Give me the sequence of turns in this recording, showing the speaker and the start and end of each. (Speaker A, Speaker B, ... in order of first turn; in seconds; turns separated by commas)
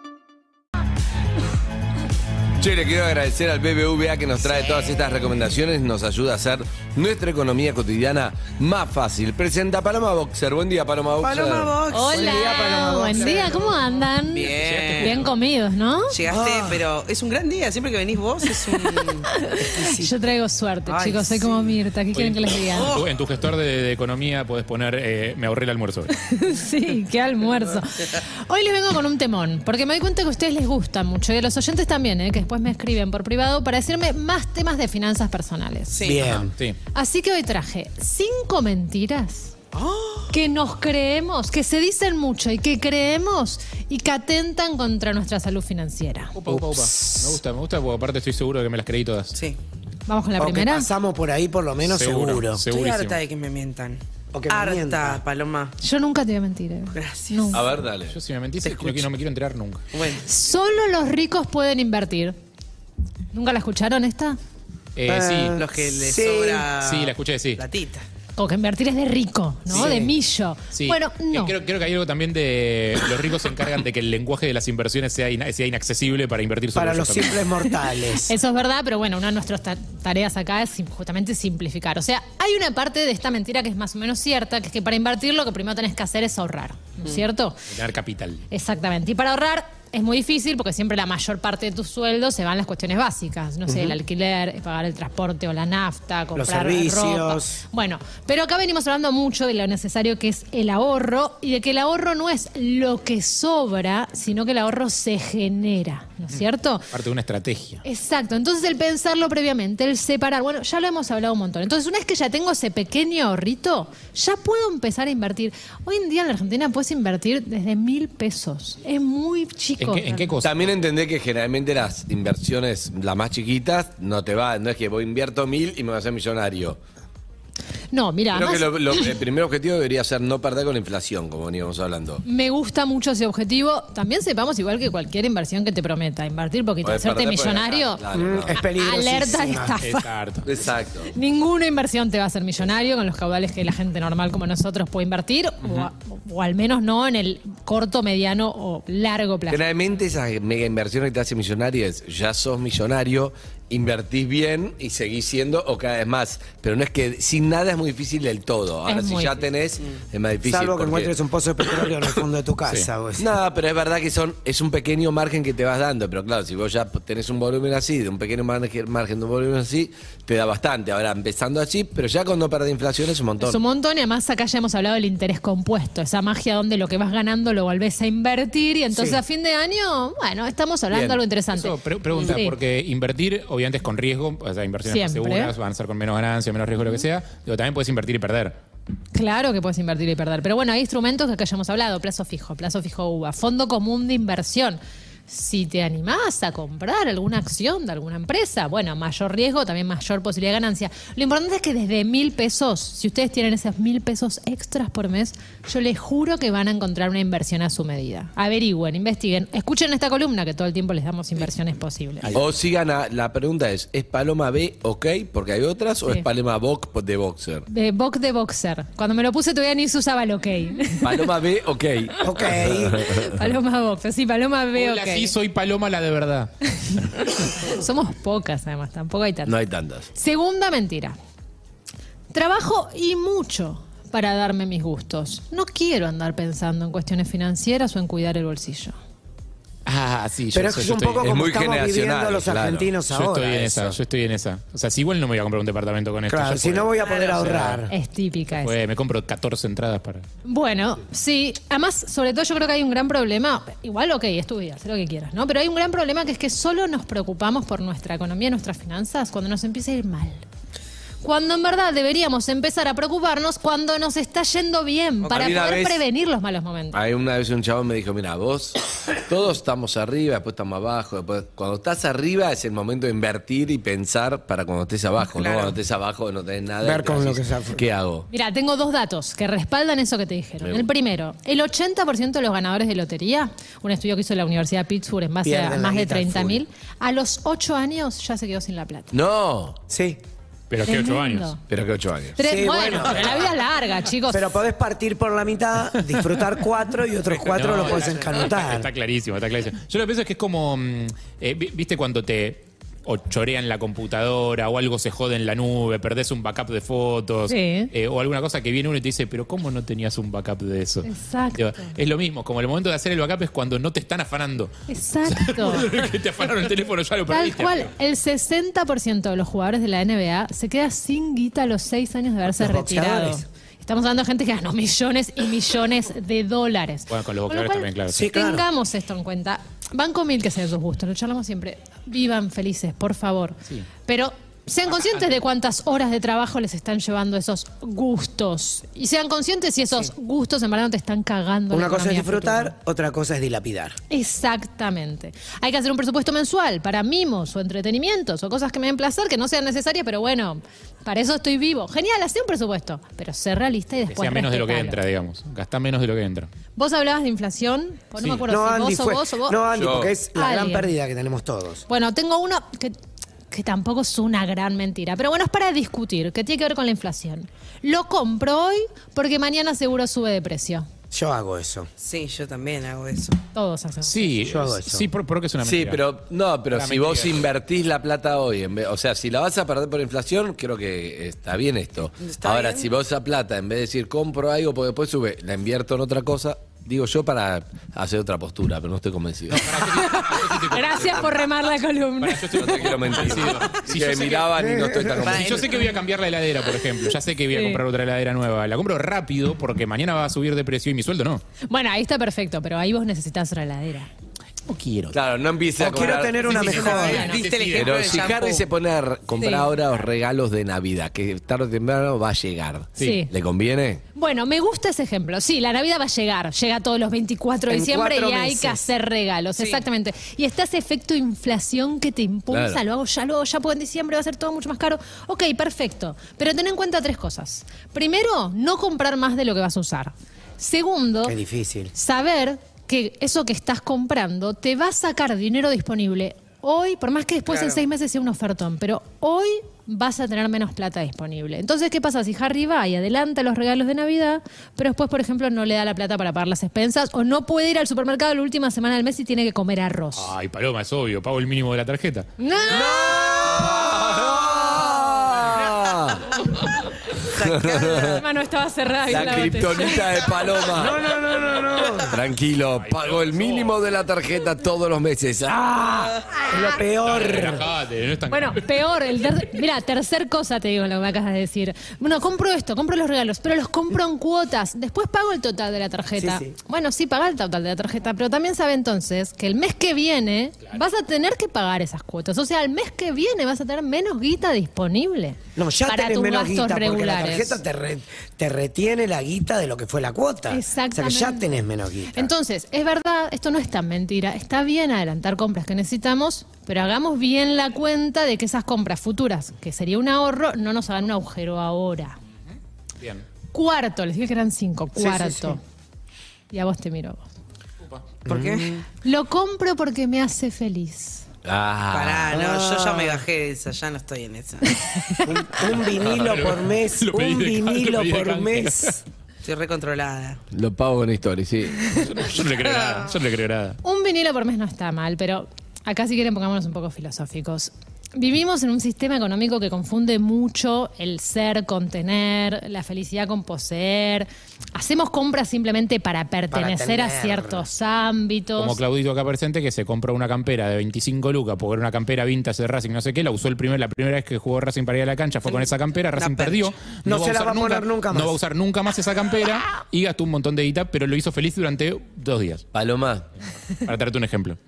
Speaker A: 2.6-11.8, Speaker B: 11.2-15.2, Speaker C: 11.9-16.2, Speaker D: 12.1-13.6, Speaker E: 14.5-15.3, Speaker B: 16.1-19.3, Speaker D: 16.3-16.8, Speaker C: 18.6-22.9, Speaker D: 19.6-20.1, Speaker B: 20.9-21.8, Speaker E: 22.1-26.1, Speaker B: 22.7-23.1, Speaker C: 26.1-36.0, Speaker B: 35.9-36.3, Speaker D: 36.0-36.5, Speaker E: 36.2-36.8, Speaker C: 36.9-39.5, Speaker B: 39.7-40.3, Speaker C: 40.3-46.3, Speaker E: 46.3-49.4, Speaker D: 46.5-46.9, Speaker B: 49.3-49.6, Speaker C: 50.1-50.9, Speaker D: 50.4-52.6, Speaker E: 51.8-53.2, Speaker B: 52.7-55.7, Speaker D: 54.3-55.2, Speaker C: 55.8-57.7, Speaker B: 57.0-57.7, Speaker A: 57.5-58.2, Speaker E: 58.1-59.8, Speaker B: 58.6-59.0, Speaker B: 59.9-60.3, Speaker C: 60.2-62.4, Speaker C: 63.3-64.4, Speaker E: 65.0-65.6, Speaker D: 65.1-66.7, Speaker B: 65.5-68.0, Speaker E: 66.8-67.6, Speaker C: 68.4-71.6, Speaker E: 69.7-70.0, Speaker D: 69.7-70.2, Speaker E: 70.7-77.5, Speaker D: 76.8-78.3, Speaker C: 77.6-87.6, Speaker E: 87.7-88.4, Speaker C: 88.5-106.9, Speaker D: 93.7-94.0, Speaker D: 96.4-97.6, Speaker E: 106.9-107.8, Speaker C: 107.8-120.3, Speaker E: 119.8-120.7, Speaker A: 120.4-126.8, Speaker C: 127.9-129.2, Speaker A: 128.3-132.2, Speaker C: 132.2-140.1, Speaker A: 136.8-138.6, Speaker D: 138.1-139.8, Speaker E: 139.8-140.5, Speaker A: 140.4-141.1, Speaker C: 141.1-149.6, Speaker A: 149.5-161.2, Speaker C: 158.9-159.4, Speaker D: 160.5-163.3, Speaker A: 163.2-173.6, Speaker C: 173.4-182.6, Speaker D: 178.9-179.2, Speaker A: 180.9-181.2, Speaker E: 181.5-188.6, Speaker C: 184.8-185.5, Speaker C: 189.1-212.3, Speaker E: 212.2-212.5, Speaker A: 212.3-217.7, Speaker C: 217.7-221.4, Speaker A: 221.0-223.5, Speaker D: 222.2-223.0, Speaker C: 222.2-225.3, Speaker E: 224.8-226.5, Speaker C: 227.5-229.6, Speaker A: 229.5-230.1, Speaker C: 230.1-231.2, Speaker C: 232.3-238.9, Speaker E: 239.9-241.3, Speaker D: 240.5-243.6, Speaker A: 241.2-243.0, Speaker E: 243.1-247.8, Speaker A: 243.6-244.0, Speaker D: 246.3-247.9, Speaker B: 247.1-247.4, Speaker C: 247.9-248.7, Speaker E: 248.6-250.3, Speaker C: 250.4-260.4, Speaker C: 261.2-267.0, Speaker B: 265.2-265.8, Speaker A: 265.3-266.0, Speaker A: 266.9-278.3, Speaker B: 275.3-275.8, Speaker D: 276.8-277.8, Speaker C: 278.3-289.1, Speaker A: 280.6-280.9, Speaker D: 285.4-286.6, Speaker A: 289.1-289.8, Speaker D: 289.9-290.2, Speaker E: 290.7-291.6, Speaker C: 290.8-291.6, Speaker A: 291.7-292.4, Speaker C: 292.4-294.5, Speaker D: 292.4-293.5, Speaker D: 294.3-298.9, Speaker E: 297.2-314.7, Speaker C: 307.5-307.9, Speaker C: 311.0-311.9, Speaker C: 314.9-315.9, Speaker E: 315.3-317.9, Speaker C: 317.3-342.7, Speaker D: 322.5-323.4, Speaker E: 327.1-328.3, Speaker D: 328.1-328.7, Speaker D: 341.7-344.0, Speaker C: 344.1-355.0, Speaker E: 354.1-356.5, Speaker C: 356.8-359.6, Speaker D: 358.5-361.8, Speaker A: 359.7-360.1, Speaker C: 360.3-360.9, Speaker C: 361.9-363.0, Speaker C: 363.5-370.9, Speaker D: 371.1-371.9, Speaker B: 372.0-373.4, Speaker C: 373.5-374.4, Speaker E: 374.0-376.0, Speaker D: 374.5-375.1, Speaker A: 375.6-389.8, Speaker E: 376.7-377.5, Speaker B: 382.2-382.9, Speaker E: 389.5-391.5, Speaker C: 389.6-393.7, Speaker E: 392.2-394.5, Speaker A: 392.6-395.7, Speaker D: 394.6-395.2, Speaker B: 395.2-396.0, Speaker E: 395.3-401.4, Speaker C: 397.5-397.8, Speaker C: 401.7-404.1, Speaker E: 404.7-405.2, Speaker A: 405.1-414.0, Speaker D: 405.8-407.3, Speaker E: 406.3-408.3, Speaker B: 406.7-408.7, Speaker C: 406.8-407.4, Speaker C: 409.4-409.7, Speaker C: 413.0-413.3, Speaker C: 414.1-431.4, Speaker D: 417.7-418.8, Speaker B: 419.6-419.8, Speaker A: 422.5-422.8, Speaker D: 431.2-431.9, Speaker C: 431.9-450.3, Speaker B: 437.5-437.8, Speaker E: 450.2-452.3, Speaker C: 452.4-453.9, Speaker A: 452.7-456.4, Speaker A: 457.3-458.2, Speaker B: 457.4-458.2, Speaker C: 458.1-460.6, Speaker A: 459.1-461.2, Speaker D: 460.7-462.2, Speaker A: 462.0-466.3, Speaker E: 462.6-463.8, Speaker D: 466.5-467.7, Speaker E: 467.1-468.7, Speaker C: 468.3-487.6, Speaker D: 476.2-476.5, Speaker D: 485.6-492.3, Speaker C: 490.5-491.6, Speaker C: 492.1-502.2, Speaker E: 503.0-503.2, Speaker C: 503.5-505.6, Speaker D: 505.0-505.6, Speaker C: 506.5-507.3, Speaker B: 508.3-508.8, Speaker D: 508.3-508.8, Speaker C: 509.0-511.2, Speaker A: 511.4-512.4, Speaker B: 511.9-514.8, Speaker D: 512.3-513.2, Speaker C: 514.9-515.2, Speaker D: 515.2-519.0, Speaker E: 515.9-519.0, Speaker B: 519.5-520.4, Speaker A: 520.5-521.9, Speaker E: 521.9-523.8, Speaker B: 522.7-523.1, Speaker C: 523.8-538.8, Speaker D: 536.5-537.7, Speaker E: 538.6-552.6, Speaker B: 545.5-546.8, Speaker D: 547.0-548.4, Speaker A: 552.7-553.3, Speaker E: 553.8-554.6